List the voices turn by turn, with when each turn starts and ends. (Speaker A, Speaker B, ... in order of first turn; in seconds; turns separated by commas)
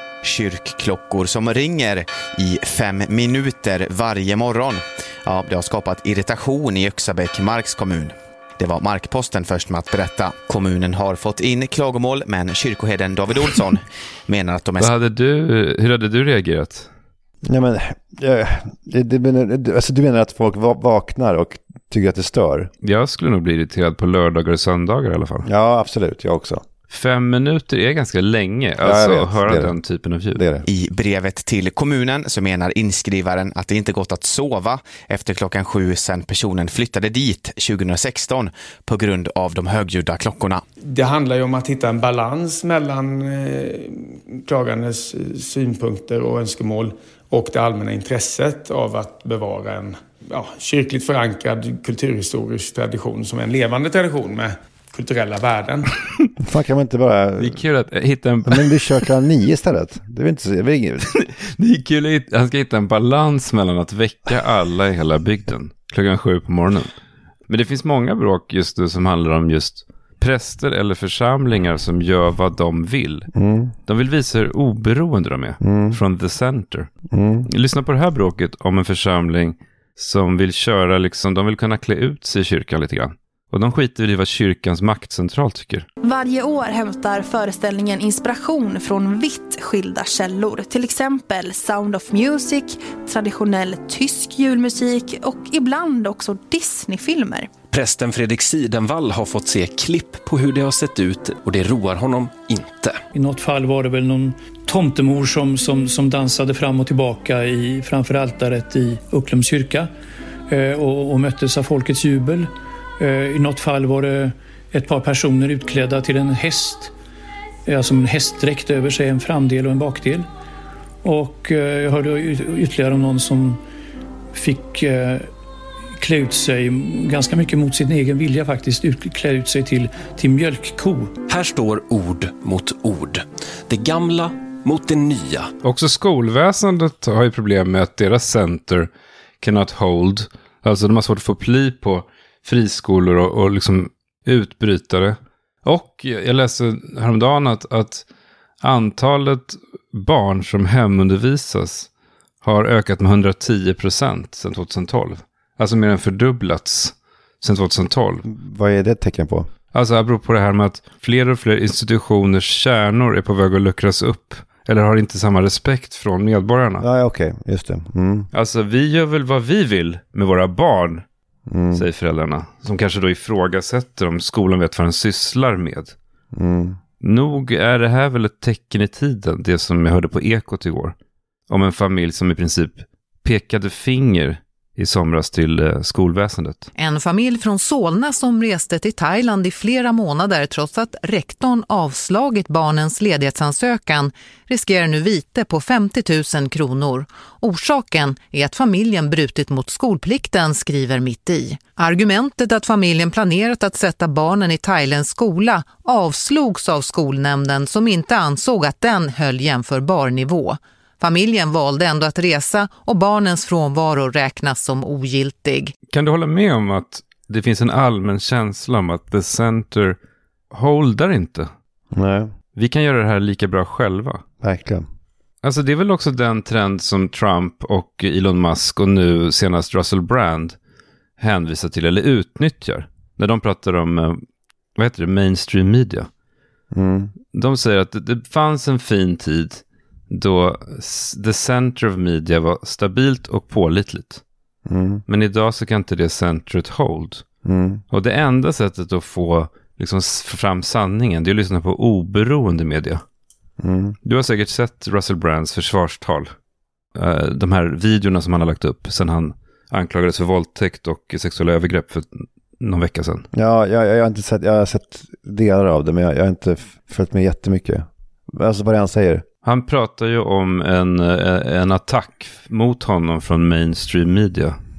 Speaker A: 0.2-14.9, Speaker B: 14.8-16.9, Speaker C: 17.4-22.7, Speaker B: 22.8-25.5, Speaker C: 25.4-26.6, Speaker B: 26.9-30.4, Speaker C: 28.8-29.8, Speaker C: 30.3-30.6, Speaker A: 30.6-40.6, Speaker D: 40.8-55.9, Speaker C: 56.4-57.6, Speaker B: 57.4-59.1, Speaker C: 58.5-61.1, Speaker B: 61.1-66.9, Speaker B: 67.5-73.3, Speaker C: 73.3-73.7, Speaker B: 73.8-76.9, Speaker C: 75.6-76.0, Speaker C: 77.1-77.5, Speaker B: 77.4-85.8, Speaker E: 86.0-97.5, Speaker F: 97.7-103.0, Speaker G: 103.1-109.9, Speaker G: 110.5-116.9, Speaker G: 117.7-120.3, Speaker G: 121.0-123.6, Speaker G: 124.3-125.3, Speaker G: 126.0-131.2, Speaker F: 131.3-135.5, Speaker B: 135.6-138.9, Speaker B: 139.4-148.1, Speaker B: 148.6-151.9, Speaker B: 152.4-158.2, Speaker C: 158.2-159.5, Speaker B: 159.7-166.8, Speaker C: 166.8-168.3, Speaker B: 168.3-171.0, Speaker C: 171.5-171.8, Speaker B: 171.7-175.9, Speaker C: 176.3-176.8, Speaker B: 177.0-180.9, Speaker B: 181.5-186.7, Speaker H: 186.8-215.7, Speaker B: 215.9-220.0, Speaker B: 220.5-221.5, Speaker C: 221.9-222.3, Speaker B: 222.5-224.2, Speaker C: 224.4-224.8, Speaker B: 225.4-230.6, Speaker B: 231.2-234.2, Speaker B: 234.8-236.1, Speaker C: 236.7-237.1, Speaker B: 237.3-244.2, Speaker C: 244.7-245.0, Speaker B: 245.1-247.2, Speaker C: 247.4-247.8, Speaker B: 247.9-253.0, Speaker C: 253.6-253.9, Speaker B: 254.0-256.3, Speaker B: 256.9-263.3, Speaker C: 263.3-269.2, Speaker B: 269.4-274.6